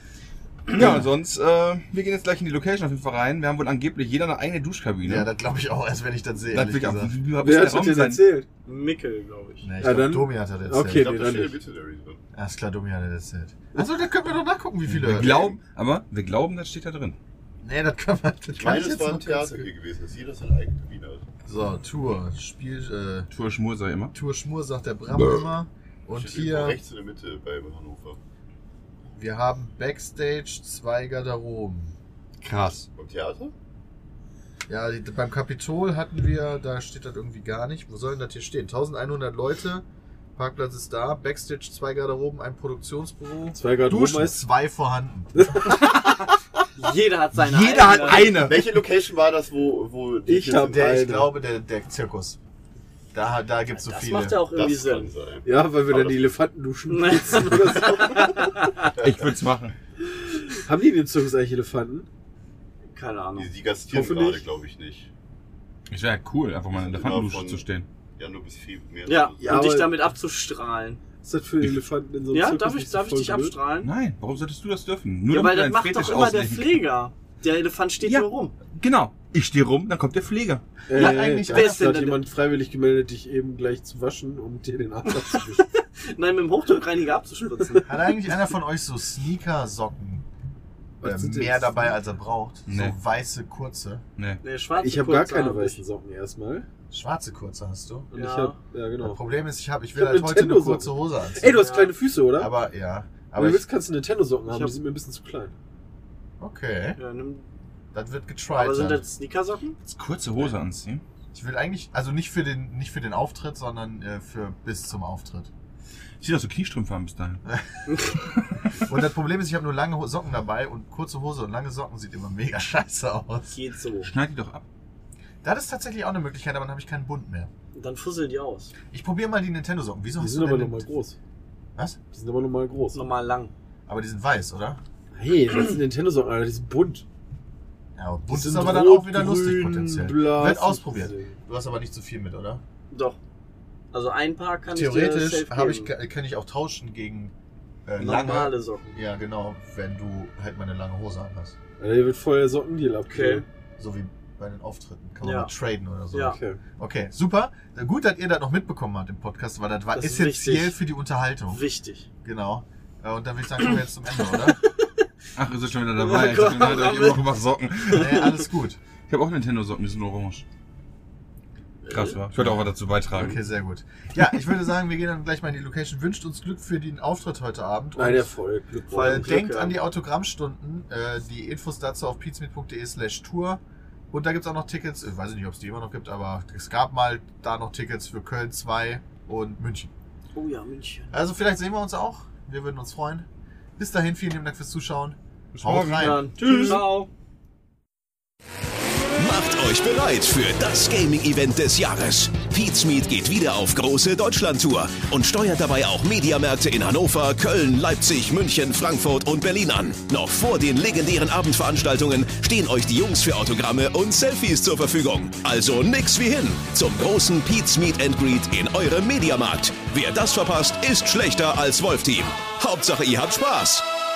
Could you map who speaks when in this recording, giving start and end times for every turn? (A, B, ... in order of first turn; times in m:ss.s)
0:00.7-0:05.3 A
0:00.7-0:01.1 B
0:05.0-0:07.2 B
0:06.5-0:08.2 A
0:07.4-0:08.5 C
0:08.6-0:09.7 D
0:09.6-0:11.3 B
0:09.8-0:11.6 C
0:10.8-0:12.2 E
0:12.3-0:15.6 B
0:14.9-0:17.2 A
0:17.6-0:19.7 B
0:18.6-0:21.2 E
0:21.4-0:23.3 B
0:23.3-0:24.1 A
0:24.1-0:26.8 B
0:25.1-0:25.5 E
0:26.1-0:28.2 E
0:29.1-0:32.0 B
0:32.4-0:32.9 A
0:32.9-0:33.5 E
0:34.7-0:39.8 B
0:40.4-0:45.5 B
0:43.5-0:44.4 C
0:45.4-0:45.8 C
0:45.6-0:46.4 A
0:46.8-0:48.4 D
0:47.3-0:48.8 A
0:48.2-0:50.8 E
0:50.2-0:51.3 C
0:50.5-0:52.4 B
0:53.1-0:54.4 B
0:53.7-0:55.1 D
0:54.5-0:56.4 E
0:55.4-0:58.5 C
0:56.9-0:58.9 D
0:59.0-0:59.8 A
1:00.6-1:02.1 C
1:02.9-1:03.5 D
1:03.3-1:05.1 E
1:03.9-1:04.4 C
1:05.9-1:07.8 A
1:06.7-1:07.6 E
1:08.2-1:09.7 E
1:09.1-1:11.0 D
1:09.4-1:10.0 C
1:11.2-1:13.6 C
1:12.3-1:13.9 D
1:13.8-1:16.8 A
1:15.3-1:18.5 D
1:18.0-1:20.6 A
1:20.9-1:25.7 C
1:20.9-1:21.9 B
1:20.9-1:22.2 D
1:25.2-1:27.9 D
1:27.8-1:30.2 B
1:31.0-1:31.9 C
1:31.0-1:34.0 B
1:32.7-1:33.0 A
1:34.2-1:34.4 A
1:34.4-1:35.8 D
1:34.8-1:36.6 C
1:36.9-1:38.1 B
1:38.1-1:38.6 D
1:38.1-1:39.2 C
1:39.0-1:41.6 B
1:39.9-1:42.5 C
1:41.5-1:42.0 D
1:42.4-1:43.6 B
1:43.4-1:45.5 C
1:44.5-1:44.7 D
1:46.4-1:47.0 B
1:47.0-1:47.5 D
1:47.9-1:49.0 B
1:48.5-1:49.8 D
1:49.8-1:51.0 A
1:51.3-1:55.5 B
1:56.2-1:57.4 A
1:57.9-1:58.2 D
1:58.8-2:03.6 B
2:03.5-2:04.1 D
2:04.0-2:04.6 A
2:05.4-2:07.5 B
2:07.7-2:08.7 D
2:08.9-2:10.9 B
2:10.2-2:11.2 C
2:12.1-2:13.0 C
2:12.9-2:13.5 D
2:13.9-2:14.8 B
2:15.1-2:17.0 C
2:17.9-2:22.6 B
2:18.3-2:21.4 C
2:22.9-2:23.2 D
2:23.9-2:25.9 D
2:24.7-2:27.3 B
2:27.8-2:31.5 B
2:28.0-2:28.9 D
2:31.8-2:33.4 C
2:33.1-2:33.4 D
2:33.8-2:41.6 B
2:35.2-2:35.5 D
2:36.1-2:36.4 D
2:36.2-2:36.6 C
2:39.9-2:40.8 D
2:41.5-2:42.1 D
2:42.2-2:44.6 B
2:44.5-2:44.9 D
2:45.4-2:48.2 A
2:46.0-2:47.2 D
2:47.9-2:48.2 D
2:47.9-2:48.8 B
2:49.1-2:50.4 A
2:51.8-2:52.2 D
2:51.9-2:53.4 A
2:52.3-2:58.3 B
2:58.0-2:59.4 C
2:58.9-2:59.8 D
2:58.9-3:09.9 B
3:10.3-3:11.1 D
3:11.1-3:16.3 B
3:15.5-3:16.9 A
3:16.0-3:17.1 D
3:19.1-3:43.9 F